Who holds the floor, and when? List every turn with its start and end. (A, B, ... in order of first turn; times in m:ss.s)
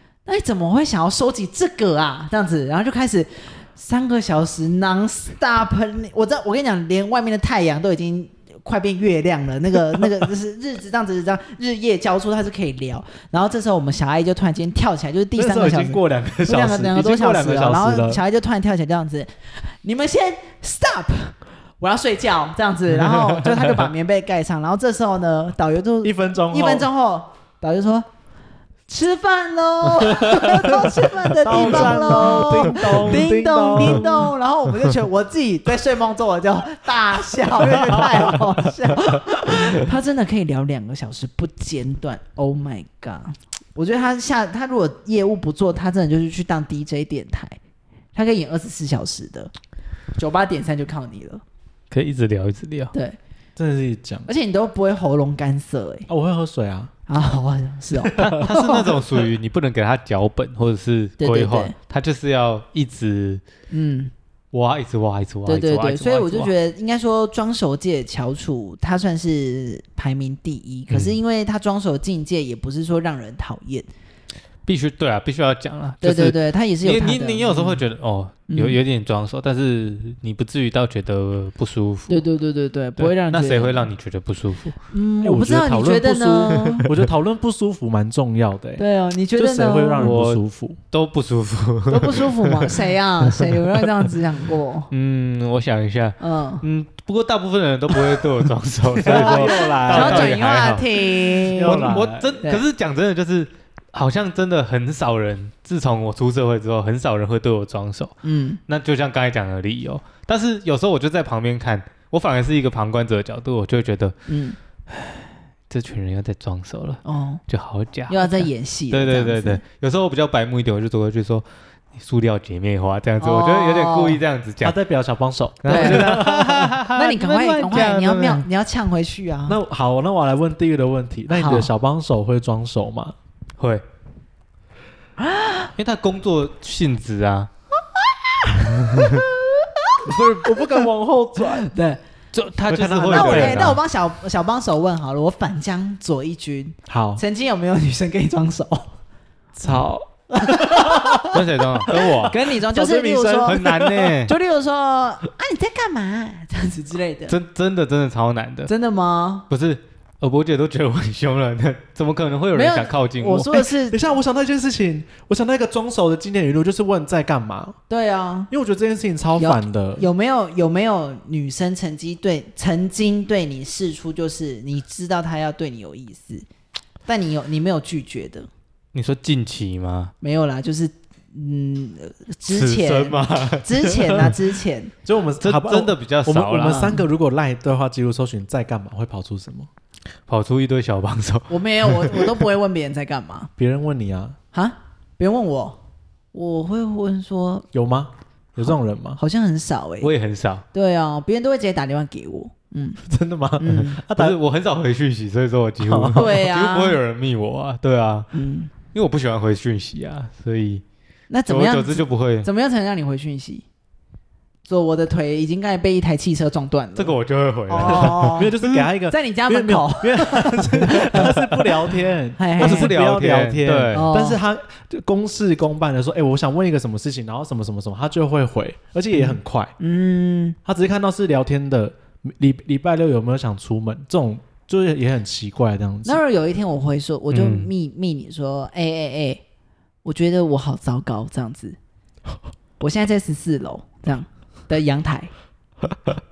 0:00.3-0:28.1 A
0:15.4-0:18.2 B
0:23.1-0:23.6 C
0:26.0-0:26.9 B
0:28.9-0:47.6 A
0:30.4-0:30.9 B
0:31.4-0:34.3 B
0:31.5-0:33.2 C
0:48.2-0:49.5 A
0:50.2-0:51.4 A
0:51.9-0:52.9 C
0:53.6-0:54.3 B
0:54.3-0:56.1 A
0:56.1-0:56.9 B
0:57.1-0:59.0 A
0:58.0-0:58.9 B
0:58.2-1:03.4 C
1:01.2-1:01.7 A
1:03.7-1:04.1 A
1:04.5-1:06.5 C
1:05.5-1:13.9 A
1:10.9-1:11.2 C
1:14.7-1:22.2 C
1:16.0-1:17.8 A
1:18.5-1:18.8 A
1:22.1-1:23.9 A
1:23.0-1:24.8 C
1:24.9-1:26.9 A
1:25.2-1:28.8 B
1:26.6-1:27.0 C
1:28.8-1:30.1 A
1:29.4-1:30.8 B
1:30.0-1:33.9 C
1:31.9-1:34.9 A
1:34.9-1:48.2 C
1:36.2-1:36.6 A
1:39.0-1:40.4 B
1:39.0-1:42.6 A
1:41.5-1:42.4 B
1:48.2-1:48.6 A
1:48.7-1:54.2 C
1:54.3-1:54.6 A
1:54.9-2:04.8 C
1:57.0-1:57.4 A
1:58.1-1:59.6 A
2:03.2-2:04.2 A
2:04.6-2:06.7 B
2:05.6-2:08.5 C
2:05.7-2:06.3 A
2:06.9-2:09.6 A
2:09.5-2:13.2 B
2:11.3-2:11.7 A
2:13.6-2:13.8 C
2:15.2-2:15.7 A
2:15.8-2:17.5 C
2:18.4-2:20.1 A
2:18.7-2:19.2 C
2:20.1-2:20.5 C
2:20.2-2:21.7 B
2:21.5-2:22.0 A
2:22.3-2:23.8 C
2:22.7-2:23.8 B
2:23.1-2:28.9 A
2:26.9-2:27.2 B
2:29.6-2:31.2 B
2:30.4-2:33.6 A
2:31.3-2:32.4 C
2:31.9-2:34.2 B
2:33.4-2:34.4 C
2:34.2-2:37.4 A
2:37.3-2:38.7 C
2:38.7-2:39.5 A
2:39.5-2:43.7 C
2:42.5-2:44.0 A
2:43.9-2:47.8 B
2:47.9-2:48.5 A
2:48.5-2:50.0 B
2:49.4-2:56.5 A
2:57.1-2:58.5 A
2:58.9-3:00.1 C
3:00.2-3:04.9 A
3:02.5-3:04.4 C
3:05.0-3:09.7 B
3:05.4-3:06.9 C
3:06.6-3:07.0 A
3:10.3-3:12.4 C
3:11.5-3:13.5 A
3:13.6-3:14.4 B
3:14.5-3:15.8 A
3:16.3-3:17.7 A
3:17.7-3:19.2 B
3:18.6-3:20.1 A
3:20.0-3:20.6 C
3:20.7-3:23.0 A
3:23.0-3:24.4 B
3:23.6-3:24.0 A
3:23.7-3:28.3 C
3:25.8-3:26.4 B
3:26.1-3:27.0 A
3:28.3-3:28.7 A
3:28.9-3:30.8 C
3:31.3-3:33.6 A
3:31.5-3:32.5 C
3:34.7-3:37.2 A
3:37.0-3:38.9 C
3:37.7-3:38.5 A
3:37.8-3:49.7 B
3:39.1-3:41.5 A
3:42.4-3:43.0 A
3:42.6-3:44.1 C
3:43.9-3:44.4 A
3:49.1-3:50.6 A
3:50.6-3:56.2 B
3:56.0-3:59.4 A
3:57.3-3:57.7 C
4:00.0-4:01.8 A
4:02.8-4:05.3 A